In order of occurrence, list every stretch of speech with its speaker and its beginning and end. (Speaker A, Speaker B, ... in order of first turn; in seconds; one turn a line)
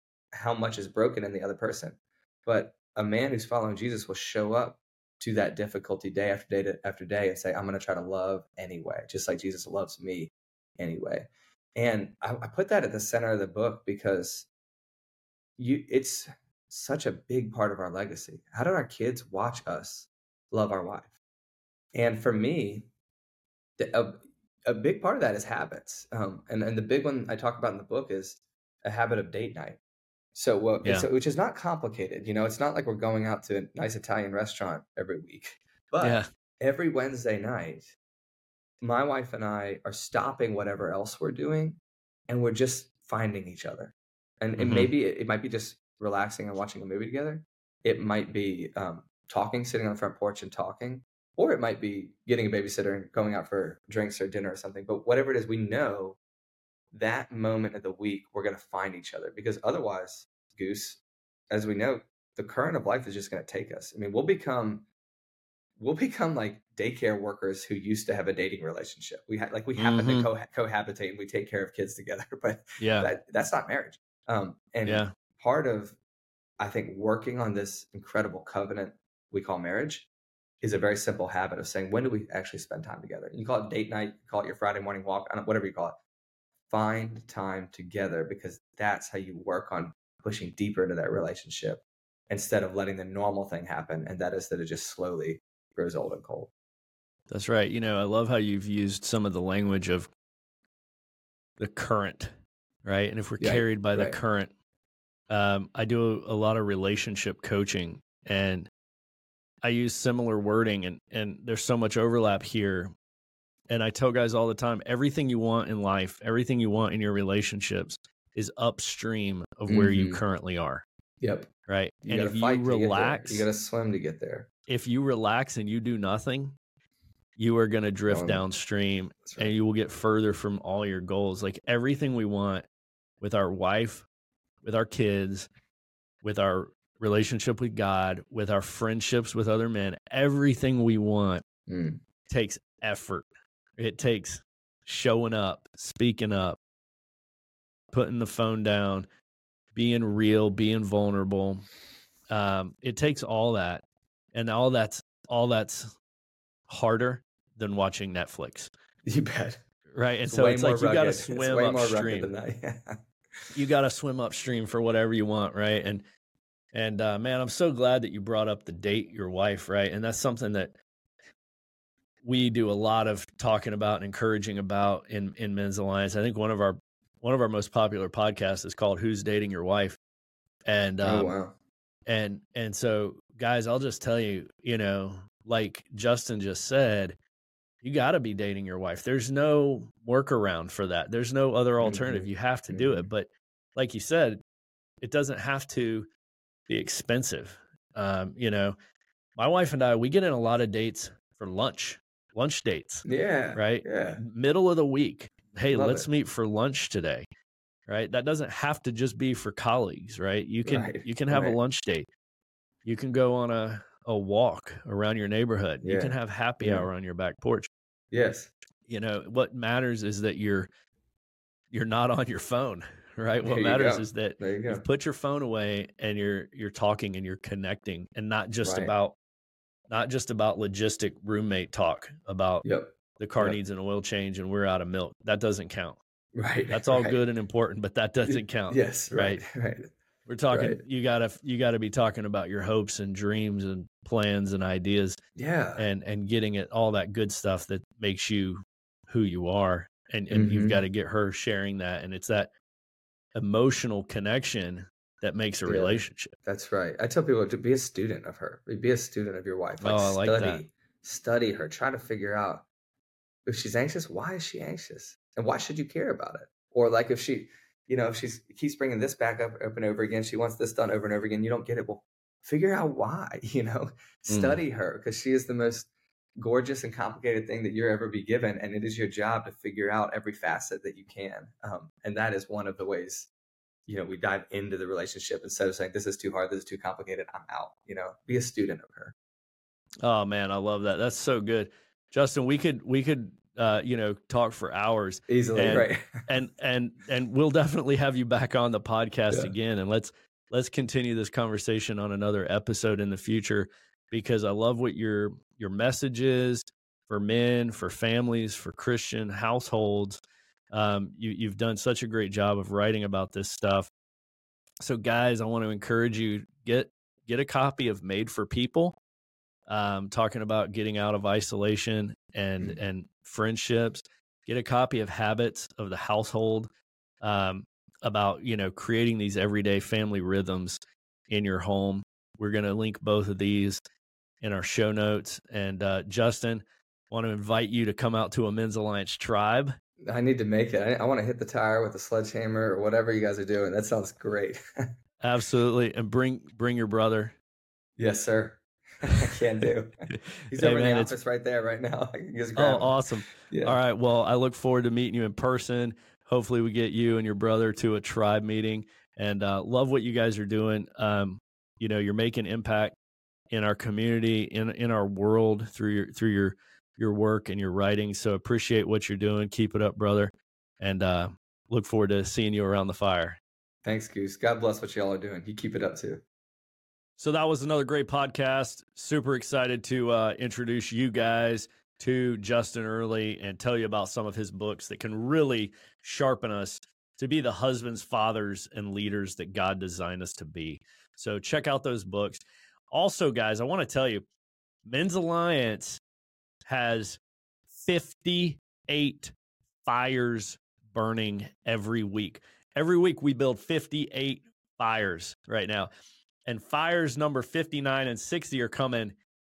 Speaker A: 0.3-14.5
Speaker A: 15.6-21.1
Speaker A: 21.9-22.9
Speaker A: 23.8-29.8
Speaker A: 30.3-38.0
Speaker B: 36.0-36.3
Speaker A: 38.8-41.8
Speaker A: 42.3-56.2
Speaker B: 44.6-44.9
Speaker A: 56.9-64.9
Speaker A: 65.8-76.0
Speaker B: 69.8-70.3
Speaker B: 72.8-73.1
Speaker B: 74.9-75.1
Speaker A: 76.6-80.1
Speaker A: 80.6-86.0
Speaker A: 86.7-96.5
Speaker B: 97.3-100.1
Speaker B: 101.6-102.3
Speaker B: 102.8-104.5
Speaker A: 103.4-104.2
Speaker B: 105.3-108.7
Speaker B: 109.6-112.9
Speaker B: 113.7-120.8
Speaker A: 119.7-120.2
Speaker A: 121.2-121.5
Speaker B: 121.7-123.5
Speaker A: 122.0-124.5
Speaker B: 124.7-126.6
Speaker B: 127.4-132.7
Speaker A: 128.1-128.4
Speaker A: 129.3-129.5
Speaker B: 133.2-134.1
Speaker B: 134.6-135.5
Speaker B: 136.2-141.4
Speaker A: 141.7-142.0
Speaker B: 142.3-143.3
Speaker B: 143.8-146.6
Speaker B: 147.9-149.1
Speaker B: 149.8-151.7
Speaker B: 152.3-153.8
Speaker B: 154.3-156.0
Speaker B: 156.7-158.7
Speaker A: 159.1-159.6
Speaker B: 159.9-162.3
Speaker A: 160.3-163.0
Speaker B: 163.5-166.0
Speaker B: 166.7-170.8
Speaker B: 172.2-180.0
Speaker B: 180.7-181.3
Speaker A: 181.0-181.6
Speaker B: 182.1-187.2
Speaker B: 187.8-194.4
Speaker A: 191.8-193.1
Speaker B: 195.0-196.1
Speaker B: 196.7-198.8
Speaker B: 199.4-207.3
Speaker A: 203.1-204.2
Speaker A: 205.7-206.1
Speaker B: 207.9-212.1
Speaker A: 210.7-211.6
Speaker B: 212.8-217.7
Speaker A: 215.8-216.9
Speaker A: 218.1-218.5
Speaker B: 218.9-220.7
Speaker B: 221.7-229.2
Speaker A: 223.4-224.8
Speaker A: 228.6-228.9
Speaker B: 229.9-232.7
Speaker A: 232.6-233.6
Speaker B: 233.2-236.0
Speaker A: 236.4-237.2
Speaker B: 236.7-239.4
Speaker A: 238.2-239.9
Speaker B: 240.3-245.2
Speaker A: 240.5-240.8
Speaker A: 245.4-245.8
Speaker B: 245.8-252.5
Speaker A: 250.3-250.8
Speaker B: 253.3-256.3
Speaker A: 255.7-262.7
Speaker B: 259.8-260.6
Speaker A: 263.5-283.3
Speaker B: 274.3-274.6
Speaker A: 283.9-289.1
Speaker B: 290.0-313.9
Speaker A: 295.3-296.3
Speaker B: 314.8-319.0
Speaker B: 319.7-326.7
Speaker B: 327.2-333.8
Speaker B: 334.4-339.7
Speaker A: 340.0-344.9
Speaker B: 345.2-347.4
Speaker A: 348.0-353.8
Speaker B: 350.1-351.1
Speaker B: 352.6-363.0
Speaker B: 363.5-373.4
Speaker A: 373.9-376.2
Speaker B: 377.2-394.2
Speaker B: 394.9-396.0
Speaker B: 396.6-397.2
Speaker B: 397.7-405.9
Speaker B: 406.5-409.2